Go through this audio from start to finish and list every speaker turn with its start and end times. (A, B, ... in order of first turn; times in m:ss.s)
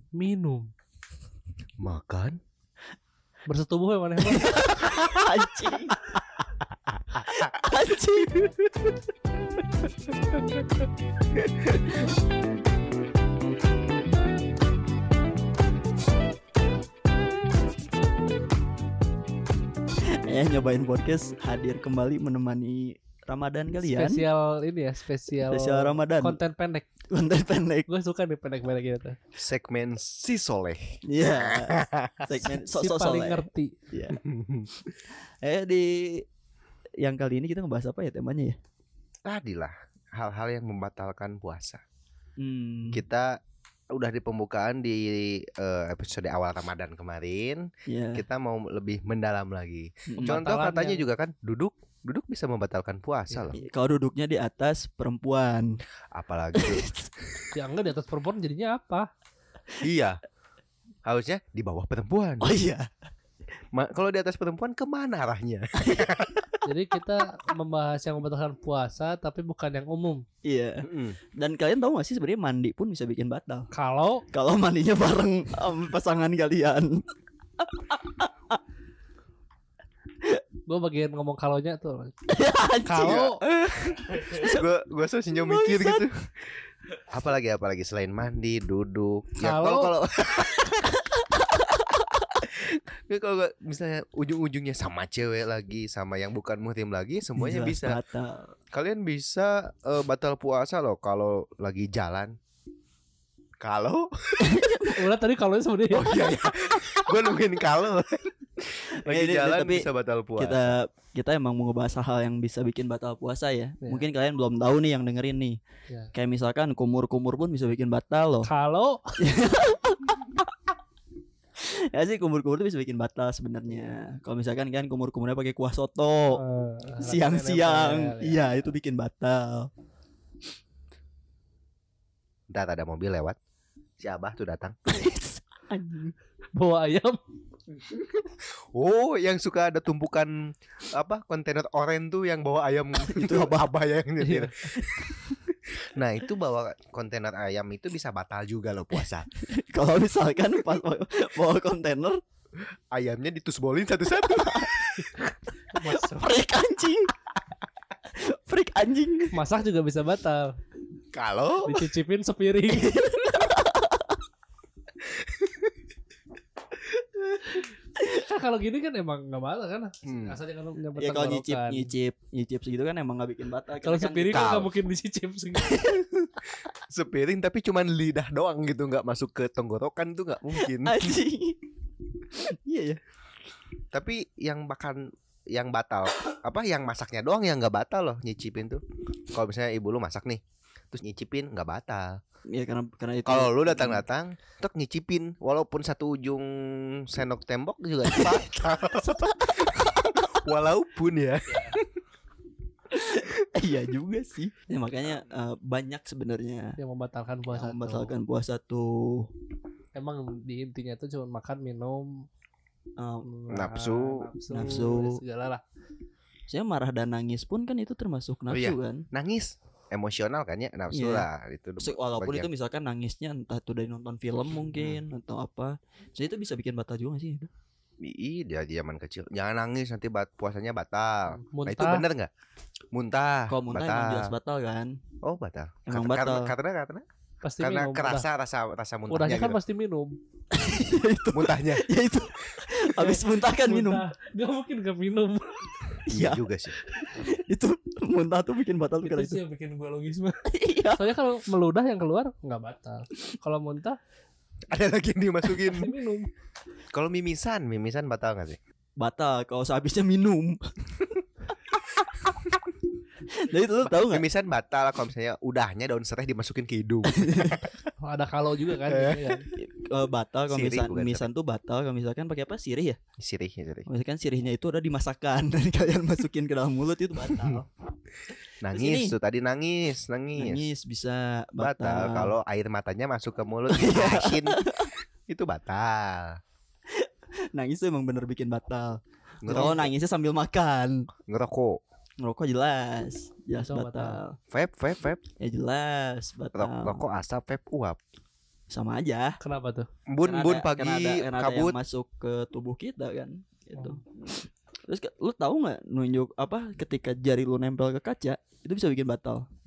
0:00.1-0:00.7 A
0:01.8-0:02.4 B
0:03.5-0:04.7 A
0:04.3-0:06.0 C
0:07.2-0:08.5 C
0:20.2-0:24.3 C
0:23.8-0:26.9 A
0:25.5-0:26.4 C
0:27.1-0:27.9 C
0:27.9-0:29.2 A
0:29.4-0:32.3 B
0:31.1-0:34.2 C
0:32.5-0:33.8 A
0:34.1-0:34.9 B
0:35.4-0:36.2 C
0:37.0-0:38.6 C
0:39.2-0:41.8 B
0:42.4-0:43.0 C
0:42.9-0:43.4 B
0:43.9-0:53.6 B
0:47.9-0:48.2 C
0:50.2-0:51.1 A
0:53.5-0:55.7 C
0:56.1-0:56.9 B
0:56.6-0:57.1 C
0:57.5-0:59.1 A
0:59.8-1:00.2 B
1:01.1-1:02.5 B
1:02.4-1:02.9 C
1:03.7-1:06.6 B
1:06.6-1:10.2 A
1:10.4-1:10.8 C
1:10.8-1:11.2 B
1:11.4-1:13.7 C
1:13.7-1:14.2 A
1:14.3-1:17.0 C
1:17.6-1:18.3 C
1:20.7-1:22.1 A
1:22.3-1:24.6 C
1:22.8-1:23.4 A
1:23.0-1:23.3 B
1:24.4-1:26.3 B
1:25.3-1:26.1 C
1:27.1-1:30.9 B
1:29.4-1:29.9 A
1:32.4-1:38.0 B
1:37.4-1:38.5 C
1:38.7-1:42.3 B
1:43.6-1:44.6 B
1:44.5-1:44.9 C
1:44.9-1:46.2 A
1:45.9-1:50.8 B
1:46.1-1:47.0 C
1:49.0-1:55.6 C
1:53.8-1:54.1 A
1:56.2-1:58.5 C
1:58.4-1:59.2 A
1:59.2-2:00.4 C
2:01.6-2:06.4 C
2:06.4-2:08.4 A
2:07.0-2:09.7 C
2:12.5-2:13.4 B
2:14.0-2:14.8 B
2:14.9-2:16.1 C
2:16.6-2:17.2 A
2:17.8-2:24.9 B
2:23.0-2:23.7 C
2:24.2-2:24.5 A
2:26.0-2:29.3 B
2:29.4-2:32.2 C
2:32.9-2:35.3 B
2:35.7-2:36.4 A
2:35.8-2:37.1 C
2:38.1-2:39.3 C
2:39.3-2:40.5 A
2:41.1-2:41.8 B
2:41.6-2:43.0 A
2:42.7-2:44.1 C
2:45.3-2:45.6 B
2:48.0-2:51.9 A
2:50.0-2:50.4 B
2:51.0-2:54.6 C
2:53.8-2:55.8 A
2:54.3-2:54.7 B
2:55.6-2:56.1 C
2:56.6-3:01.2 B
3:00.6-3:01.6 C
3:02.3-3:03.0 C
3:03.9-3:12.2 B
3:12.5-3:14.0 C
3:13.2-3:21.8 B
3:18.1-3:18.4 C
3:22.9-3:26.8 C
3:26.8-3:28.1 A
3:27.5-3:29.3 C
3:29.9-3:32.3 A
3:33.0-3:33.3 C
3:33.2-3:35.6 A
3:33.5-3:34.3 B
3:34.5-3:35.2 C
3:36.5-3:39.1 C
3:38.5-3:42.5 B
3:40.9-3:41.3 C
3:41.8-3:47.5 C
3:44.8-3:45.0 B
3:48.0-3:52.3 B
3:51.4-3:52.0 A
3:52.9-3:54.4 B
3:53.5-3:55.0 C
3:55.2-3:57.0 B
3:55.9-3:56.6 C
3:57.4-3:58.3 A
3:57.6-3:59.6 B
3:59.1-4:00.1 A
4:00.5-4:04.1 C
4:01.3-4:01.9 B
4:02.9-4:06.0 A
4:06.1-4:06.4 C
4:06.1-4:06.8 B
4:07.2-4:09.4 C
4:09.0-4:14.0 A
4:10.5-4:11.0 C
4:14.7-4:15.9 B
4:15.6-4:16.3 A
4:16.9-4:18.6 B
4:19.0-4:21.2 C
4:23.3-4:24.3 C
4:23.8-4:27.8 B
4:27.2-4:27.6 C
4:28.0-4:29.5 A
4:28.9-4:29.4 B
4:29.6-4:33.0 C
4:30.5-4:31.3 B
4:33.2-4:33.9 B
4:33.9-4:37.7 C
4:38.6-4:40.7 B
4:38.7-4:39.1 C
4:40.4-4:42.3 C
4:41.6-4:46.4 B
4:43.7-4:44.9 C
4:47.0-4:51.1 C
4:49.4-4:49.9 B
4:51.3-4:51.8 B
4:52.2-4:54.4 C
4:53.6-4:54.2 A
4:54.5-4:55.2 B
4:55.4-4:57.0 C
4:56.5-4:58.0 B
4:58.7-4:59.4 C
4:59.4-4:59.9 A
5:00.1-5:01.8 B
5:00.2-5:09.5 C